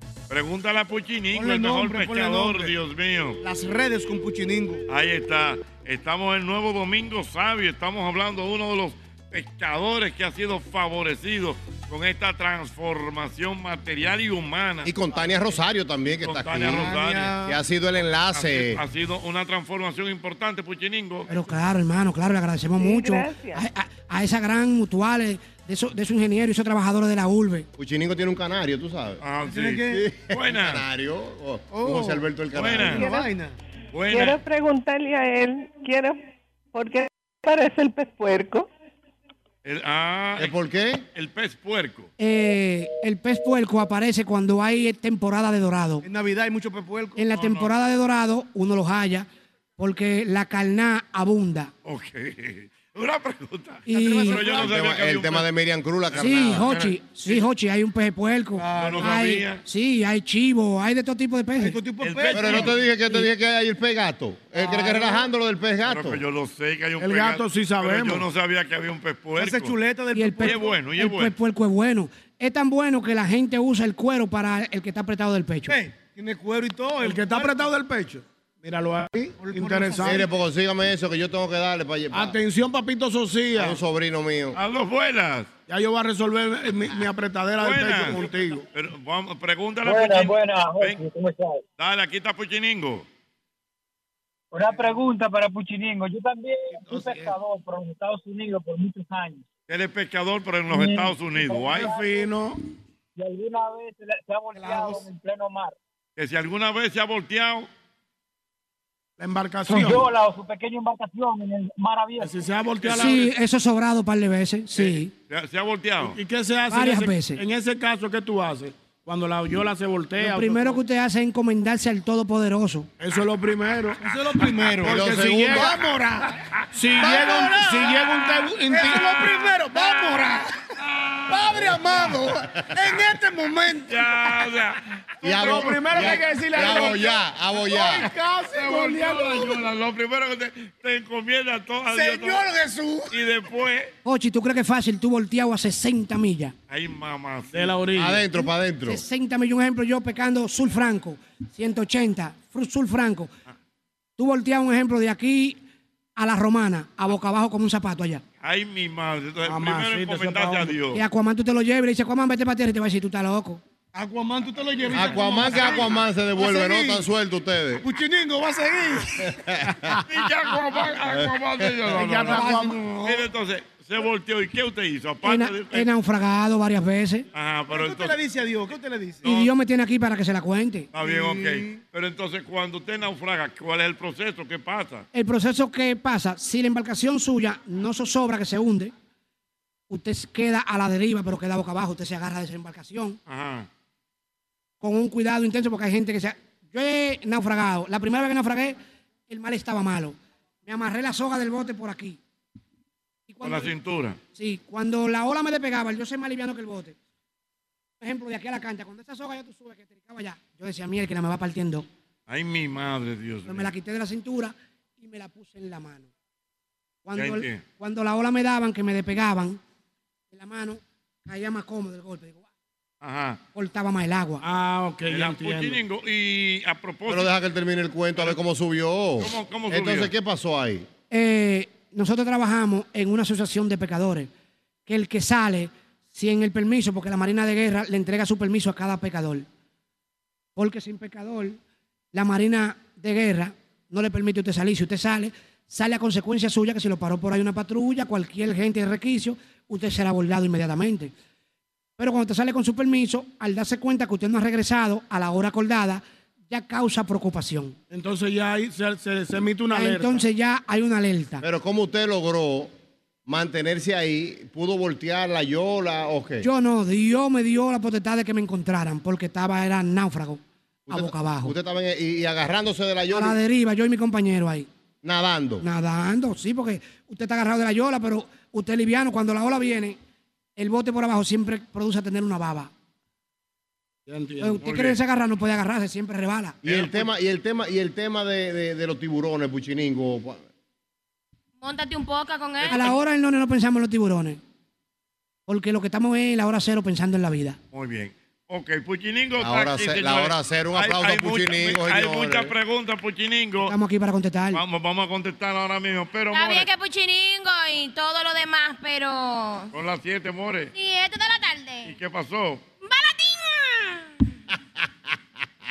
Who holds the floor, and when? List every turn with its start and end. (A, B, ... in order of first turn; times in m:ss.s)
0:00.3-0:03.4 A
0:01.3-0:02.7 B
0:03.4-0:04.8 B
0:04.9-0:14.9 A
0:14.8-0:18.8 C
0:16.2-0:17.4 A
0:16.6-0:17.6 B
0:18.3-0:21.3 A
0:21.3-0:27.7 D
0:22.8-0:23.6 E
0:27.8-0:29.2 C
0:29.2-0:30.8 A
0:29.4-0:30.0 B
0:29.9-0:33.0 C
0:31.7-0:32.3 B
0:32.5-0:33.1 A
0:32.9-0:33.6 B
0:33.0-0:33.3 E
0:33.9-0:34.4 A
0:34.1-0:36.2 E
0:36.7-0:38.7 E
0:39.6-0:40.6 A
0:40.4-0:41.0 C
0:41.1-0:42.1 A
0:42.2-0:46.0 D
0:46.0-0:47.2 B
0:47.2-0:51.7 D
0:47.3-0:47.7 A
0:51.8-0:55.5 A
0:53.8-0:54.5 D
0:53.9-0:54.7 B
0:54.5-0:56.7 C
0:56.1-0:57.4 A
0:56.1-1:01.8 D
0:58.5-0:59.3 B
0:58.7-0:59.6 A
1:01.6-1:02.7 B
1:02.0-1:02.8 A
1:02.3-1:06.2 C
1:04.5-1:05.2 B
1:05.8-1:09.7 A
1:07.0-1:08.3 F
1:09.4-1:10.8 B
1:10.1-1:15.8 D
1:10.4-1:11.3 A
1:15.7-1:17.7 B
1:17.0-1:20.2 F
1:19.4-1:20.2 B
1:20.0-1:22.4 C
1:22.1-1:23.8 F
1:23.6-1:24.6 C
1:24.5-1:25.5 A
1:25.7-1:28.6 F
1:27.6-1:31.0 A
1:29.8-1:31.6 G
1:31.8-1:33.0 A
1:34.5-1:39.4 G
1:34.7-1:35.0 B
1:36.9-1:37.2 F
1:39.7-1:42.0 A
1:40.7-1:42.3 G
1:41.7-1:42.6 F
1:43.2-1:45.7 G
1:44.6-1:45.0 B
1:46.2-1:47.7 A
1:49.2-1:50.1 F
1:49.7-1:53.0 G
1:52.2-1:53.3 F
1:52.9-1:55.1 D
1:54.8-1:56.2 A
1:56.0-2:00.8 F
1:56.7-1:57.4 D
2:00.2-2:02.9 D
2:03.0-2:10.4 F
2:04.0-2:05.8 B
2:04.8-2:05.7 C
2:07.0-2:10.4 B
2:11.3-2:14.1 B
2:11.3-2:12.3 F
2:13.9-2:17.0 A
2:15.2-2:18.1 C
2:15.3-2:19.6 F
2:18.6-2:22.4 A
2:21.9-2:23.1 B
2:23.1-2:23.9 A
2:24.0-2:26.5 D
2:26.7-2:27.8 A
2:27.5-2:28.3 F
2:27.9-2:29.0 C
2:28.8-2:33.3 D
2:34.2-2:35.6 D
2:36.2-2:38.2 D
2:38.4-2:41.0 A
2:39.4-2:40.8 F
2:40.9-2:43.6 D
2:43.9-2:47.0 B
2:44.9-2:47.8 C
2:47.8-2:49.3 B
2:49.3-2:49.9 C
2:50.0-2:55.9 A
2:51.1-2:51.7 C
2:51.9-2:53.2 F
2:52.0-2:53.0 B
2:55.2-2:57.3 D
2:57.3-2:58.2 A
2:57.7-2:59.2 B
2:59.2-2:59.5 A
2:59.2-3:00.9 D
3:00.9-3:05.1 A
3:01.0-3:01.8 B
3:05.1-3:08.9 D
3:09.9-3:13.2 D
3:13.3-3:13.7 A
3:14.8-3:22.2 D
3:23.3-3:23.8 D
3:23.4-3:24.2 A
3:24.3-3:27.0 D
3:28.0-3:31.9 D
3:32.3-3:33.7 A
3:33.4-3:36.1 D
3:37.0-3:39.6 D
3:37.1-3:37.6 A
3:40.3-3:42.5 D
3:43.0-3:43.4 A
3:43.5-3:44.4 D
3:44.4-3:45.8 F
3:45.0-3:47.3 A
3:47.1-3:50.9 C
3:49.2-3:50.1 A
3:51.1-3:54.3 D
3:54.9-3:59.4 D
4:00.6-4:01.6 D
4:02.1-4:11.1 D
4:12.0-4:17.8 D
4:17.9-4:20.2 F
4:19.7-4:21.4 D
4:21.4-4:22.7 C
4:23.2-4:26.5 C
4:26.4-4:31.5 D
4:30.9-4:33.4 C
4:33.1-4:34.7 D
4:35.0-4:35.6 C
4:35.6-4:40.0 D
4:40.6-4:42.7 D
4:44.1-4:44.9 F
4:44.4-4:46.6 D
4:44.6-4:45.0 A
4:46.6-4:50.4 C
4:46.6-4:47.1 A
4:51.6-4:53.0 H
4:52.6-4:53.0 A
4:52.7-4:54.4 D
4:55.5-4:57.6 D
4:57.7-5:03.7 A
4:59.4-5:02.5 C
5:03.6-5:04.6 D
5:04.5-5:06.7 A
5:06.3-5:09.7 H
5:09.7-5:10.7 A
5:10.7-5:11.9 H
5:11.8-5:12.6 A
5:12.8-5:14.2 H